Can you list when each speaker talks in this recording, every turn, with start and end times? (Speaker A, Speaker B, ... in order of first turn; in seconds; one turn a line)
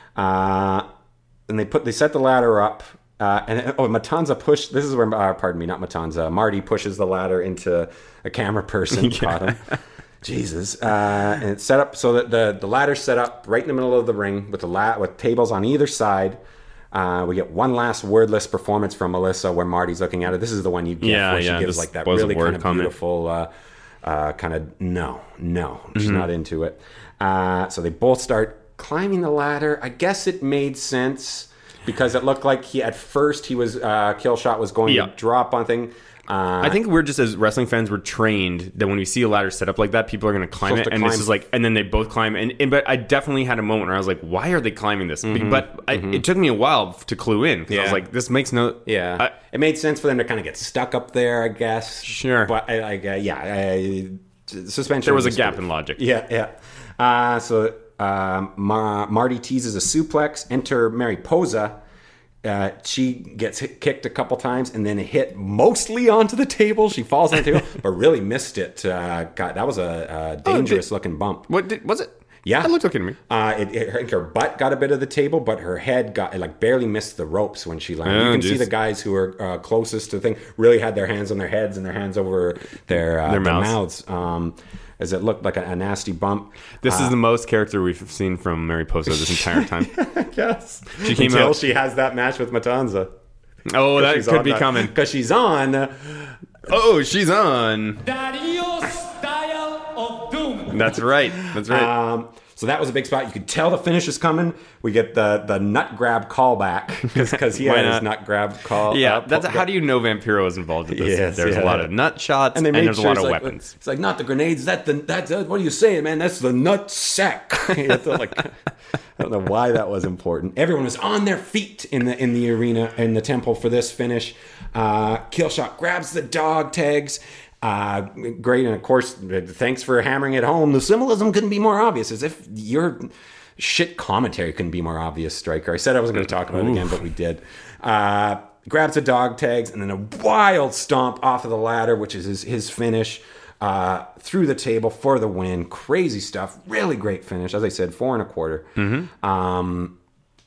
Speaker A: 0.2-0.9
Speaker A: 1.5-9.6
Speaker B: 8.9-9.8
Speaker A: 10.2-16.4
Speaker A: 16.9-23.5
Speaker B: 21.0-22.9
Speaker A: 24.0-36.8
Speaker B: 25.9-26.3
Speaker B: 34.9-35.1
Speaker B: 36.6-49.3
Speaker A: 40.6-41.3
Speaker A: 45.2-46.2
Speaker A: 47.7-48.0
Speaker A: 48.9-61.8
Speaker B: 52.0-52.5
Speaker B: 55.0-56.0
Speaker A: 62.4-71.5
Speaker B: 70.5-70.8
Speaker B: 71.5-73.2
Speaker A: 72.5-72.7
Speaker A: 73.3-87.2
Speaker B: 78.1-78.7
Speaker B: 83.2-83.8
Speaker B: 86.8-90.0
Speaker A: 89.1-93.1
Speaker B: 91.0-91.6
Speaker B: 93.7-94.9
Speaker A: 94.0-96.3
Speaker B: 96.7-98.0
Speaker C: 98.0-100.7
Speaker B: 100.7-101.9
Speaker A: 101.5-109.7
Speaker B: 107.1-108.1
Speaker B: 108.9-113.7
Speaker A: 110.9-112.0
Speaker A: 112.5-118.6
Speaker A: 119.2-149.9
Speaker B: 148.8-149.1